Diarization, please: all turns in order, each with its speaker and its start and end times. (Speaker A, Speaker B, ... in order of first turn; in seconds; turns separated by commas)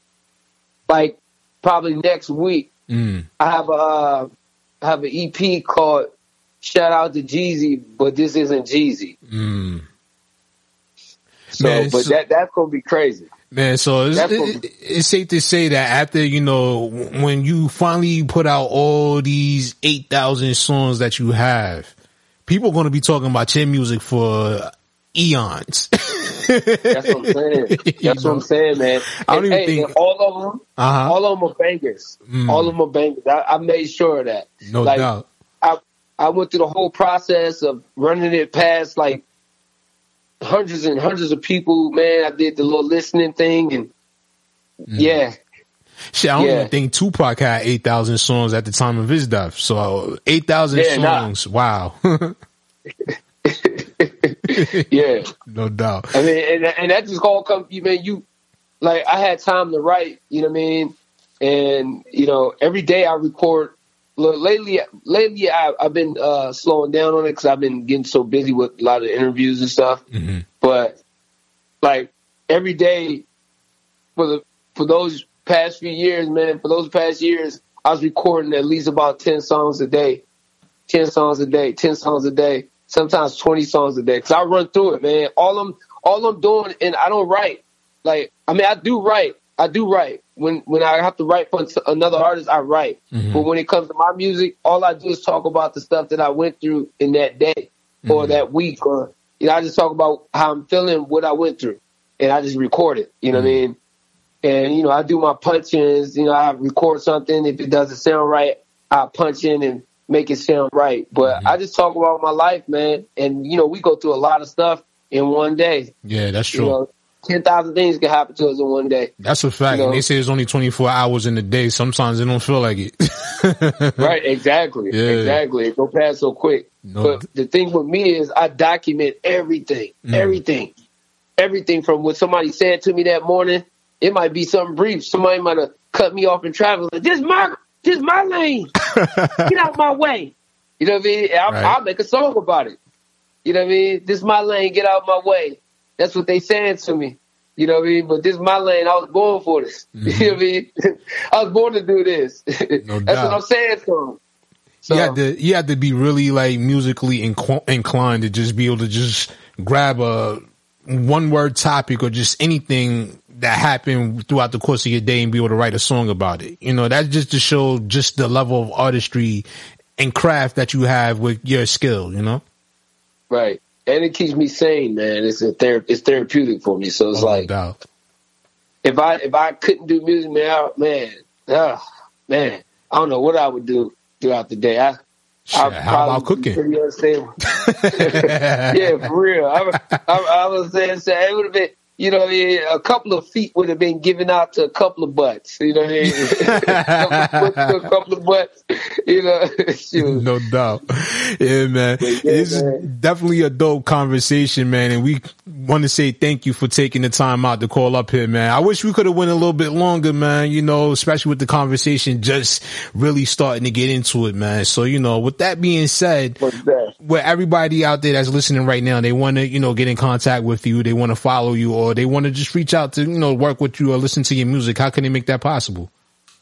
Speaker A: 0.9-2.7, Speaker B: 2.9-3.3, Speaker A: 3.4-4.3, Speaker A: 4.8-6.1, Speaker A: 6.6-9.2, Speaker B: 9.3-9.8, Speaker B: 11.5-12.1, Speaker A: 11.6-13.3, Speaker B: 13.5-21.9, Speaker A: 14.2-14.6, Speaker B: 22.5-27.1, Speaker A: 26.9-35.1, Speaker B: 27.8-28.4, Speaker B: 29.1-29.9, Speaker B: 30.8-31.2, Speaker B: 32.3-32.7, Speaker B: 34.7-35.3, Speaker A: 35.6-39.2, Speaker A: 40.4-43.9, Speaker A: 44.9-45.4, Speaker B: 46.1-52.4, Speaker A: 46.4-46.7, Speaker A: 50.7-51.3, Speaker A: 53.1-55.3, Speaker B: 55.5-56.2, Speaker A: 56.1-58.2, Speaker A: 58.8-70.0, Speaker B: 70.1-70.5, Speaker A: 70.6-71.0, Speaker A: 71.8-73.2, Speaker A: 74.2-80.2, Speaker A: 80.9-103.8, Speaker B: 93.1-93.5, Speaker B: 98.1-98.4, Speaker B: 103.3-103.6, Speaker A: 104.4-115.9, Speaker B: 111.2-111.5, Speaker B: 116.0-116.8, Speaker A: 116.5-119.1, Speaker B: 119.2-124.1, Speaker A: 119.7-120.0, Speaker A: 124.0-130.7, Speaker B: 124.9-125.4, Speaker B: 126.8-127.2, Speaker B: 130.1-130.4, Speaker A: 131.4-138.7, Speaker B: 139.0-139.5, Speaker A: 139.5-142.8, Speaker B: 141.5-141.8, Speaker A: 143.4-154.2, Speaker B: 150.0-150.4, Speaker B: 152.8-153.4, Speaker A: 154.9-155.2, Speaker B: 154.9-169.5, Speaker B: 170.0-172.4, Speaker A: 173.3-177.5, Speaker B: 177.1-177.8, Speaker A: 178.8-185.0, Speaker B: 185.5-186.6, Speaker A: 185.5-187.3, Speaker B: 187.6-188.9, Speaker A: 187.8-198.5, Speaker B: 196.1-197.5, Speaker A: 199.1-200.2, Speaker B: 200.0-216.4, Speaker A: 202.0-202.8, Speaker A: 216.4-216.9, Speaker B: 217.0-225.9